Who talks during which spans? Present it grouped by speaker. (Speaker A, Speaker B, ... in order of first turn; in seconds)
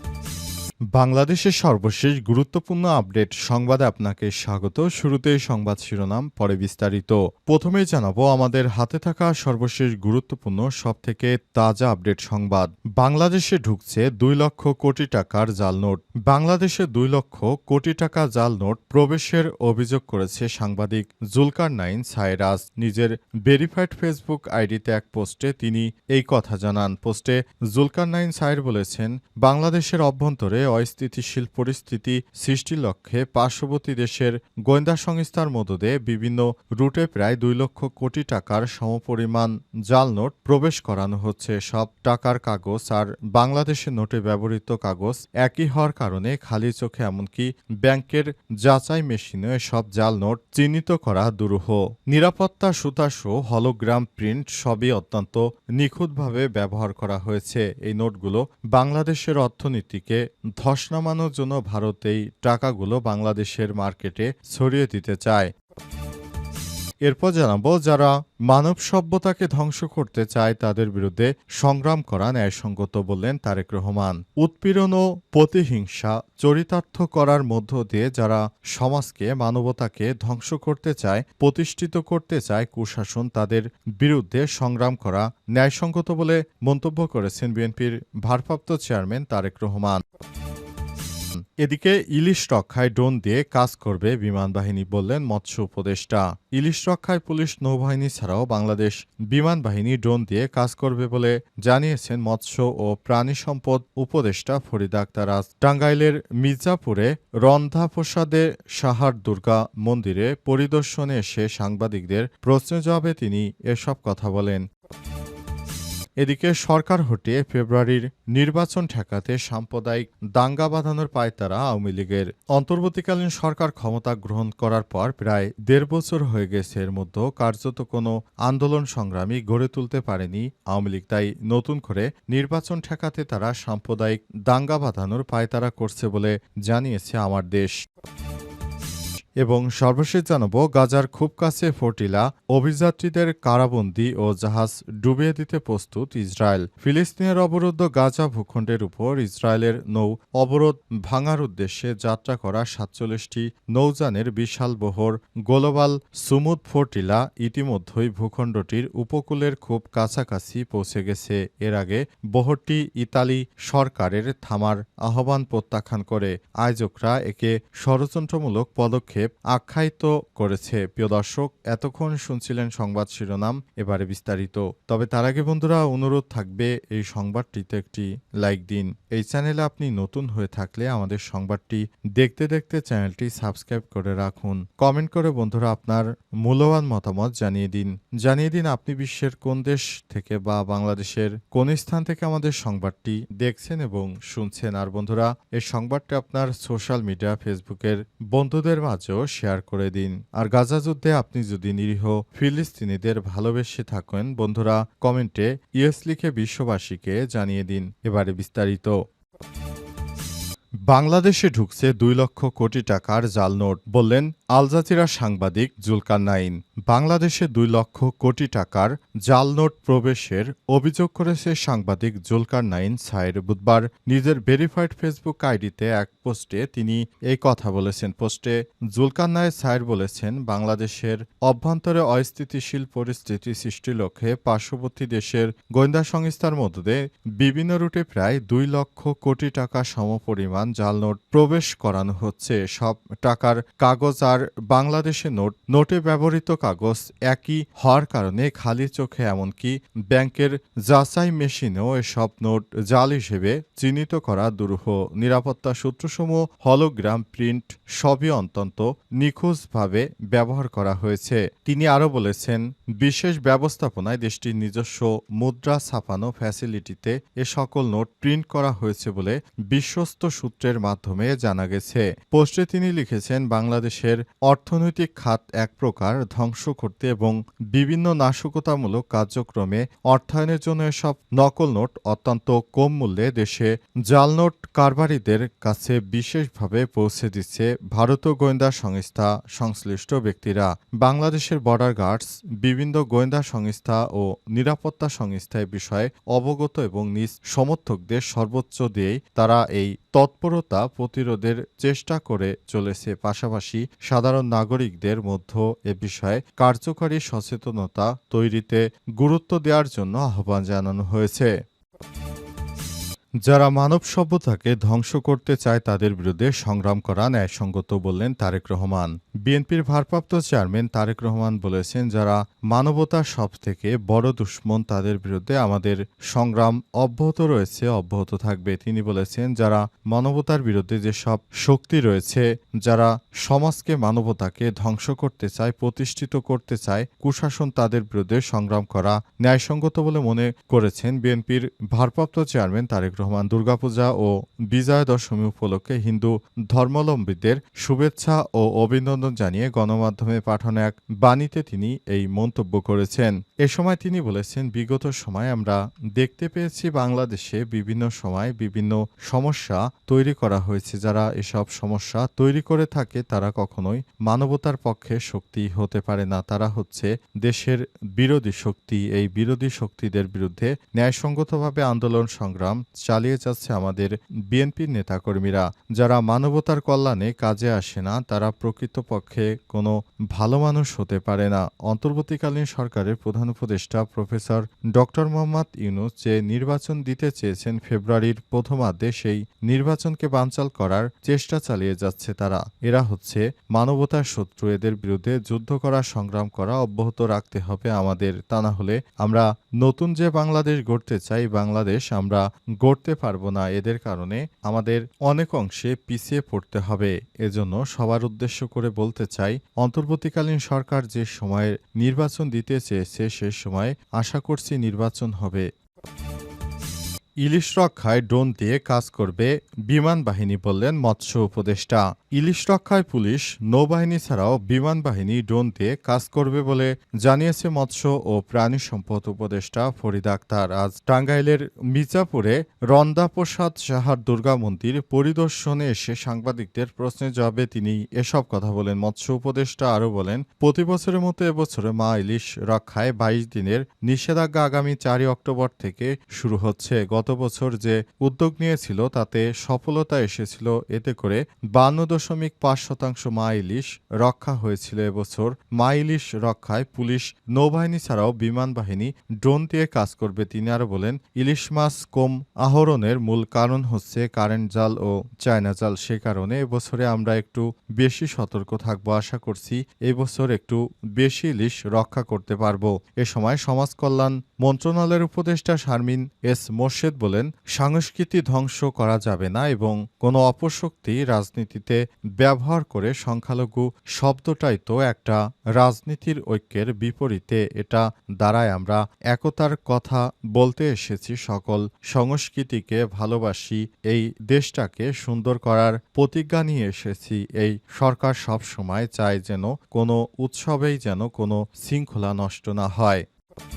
Speaker A: 0.9-65.5, 67.0-90.0, 91.6-114.7, 116.2-137.8, 139.4-209.0, 210.9-311.5, 313.4-415.7, 417.4-503.2